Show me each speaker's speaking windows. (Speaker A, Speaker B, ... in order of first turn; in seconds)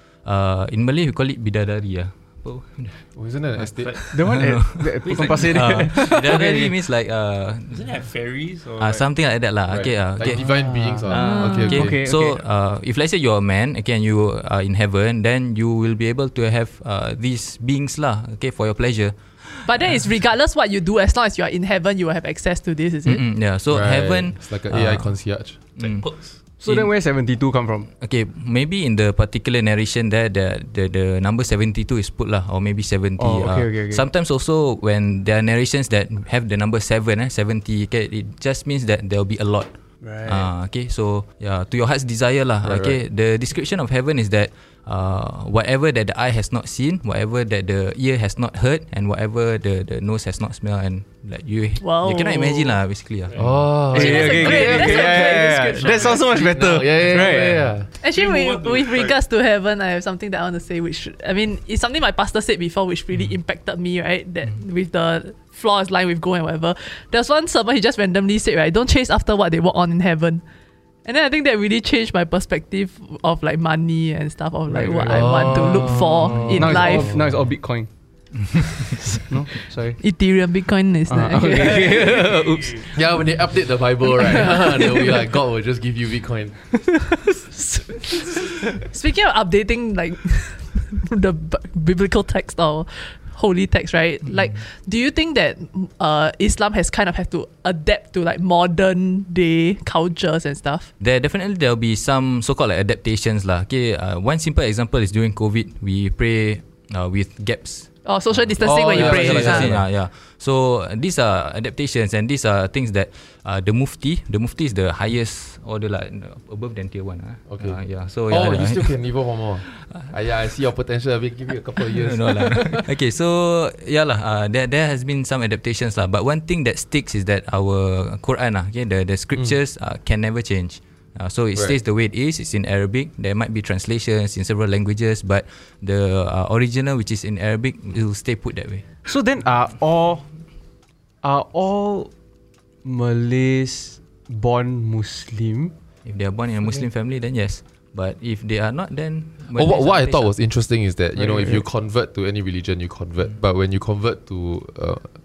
Speaker A: 0.2-3.1, 4.2-7.9, 8.8-10.5, 11.1-20.0, 23.0-26.9, 28.0-39.7, 40.2-53.5, 101.0-118.9, 119.7-120.1, 121.8-138.8, 146.0-150.3
Speaker B: 3.1-4.0, 9.7-12.0, 23.7-25.6, 42.6-43.0, 53.4-55.3, 56.3-57.9, 75.1-77.3, 82.9-86.8, 108.6-109.8, 117.5-122.8, 149.5-155.1
Speaker C: 3.8-4.1, 4.7-6.0, 7.7-9.1, 25.8-26.4, 53.3-56.5, 57.0-57.5, 58.0-59.2, 81.9-82.8
Speaker D: 4.1-6.7, 10.5-12.4, 26.6-27.9, 33.2-34.0, 40.0-40.5, 53.9-57.7, 74.7-77.9, 79.2-80.0, 81.1-82.8, 139.1-140.2, 141.2-142.1, 142.8-145.7, 151.2-151.6
Speaker E: 11.0-11.7, 19.6-23.2, 51.8-52.8, 53.9-56.0, 58.0-70.4, 71.0-77.1, 80.0-82.1, 84.3-85.1, 87.5-100.9, 108.0-109.7